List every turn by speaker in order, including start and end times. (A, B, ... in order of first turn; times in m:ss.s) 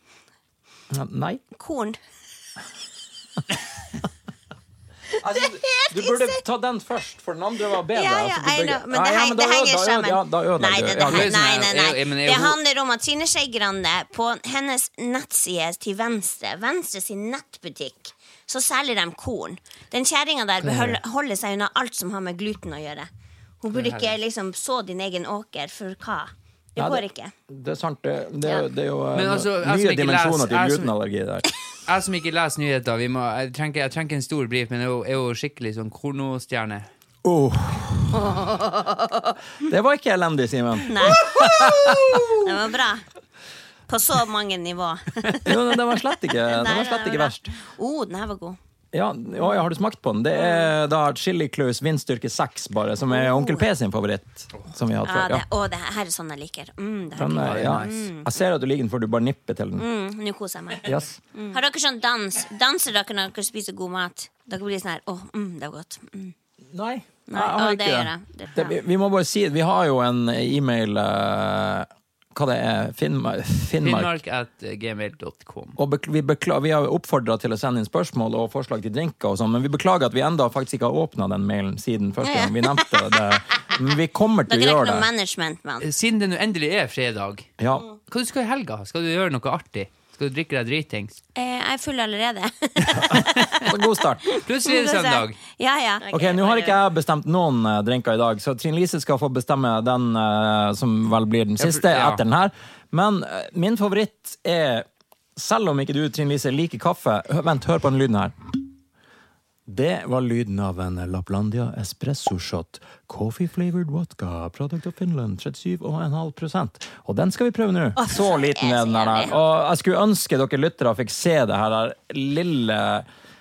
0:00.9-0:01.4 A
0:01.6-0:02.0 B
0:05.2-0:11.3 A
0:05.2-0:06.4 B
0:07.9-0:23.1 B
0:11.0-0:12.6 C
0:20.6-0:21.0 A
0:23.6-0:27.3 B
0:23.7-0:24.1 C
0:26.8-0:31.4 A
0:29.1-0:30.9 C
0:31.8-0:36.9 C
0:37.2-0:38.4 A
0:38.1-0:39.4 B
0:39.6-0:42.6 A
0:40.8-0:43.0 B
0:43.9-0:45.8 B
0:45.4-0:47.5 A
0:46.4-0:48.6 B
0:48.9-0:55.4 A
0:53.1-0:53.6 B
0:55.0-0:58.3 B
0:57.2-0:59.8 A
0:57.4-0:58.0 C
0:59.8-1:06.3 B
1:00.8-1:01.2 A
1:06.7-1:14.2 A
1:07.3-1:08.7 B
1:13.8-1:15.8 C
1:15.8-1:25.1 A
1:22.2-1:23.4 B
1:24.5-1:25.9 B
1:25.8-1:27.5 C
1:27.6-1:27.8 A
1:28.1-1:31.2 C
1:31.3-1:36.8 B
1:32.8-1:33.7 C
1:33.0-1:34.3 A
1:34.3-1:35.4 C
1:36.1-1:48.3 A
1:41.6-1:42.2 C
1:49.7-2:03.0 A
1:58.0-1:59.3 B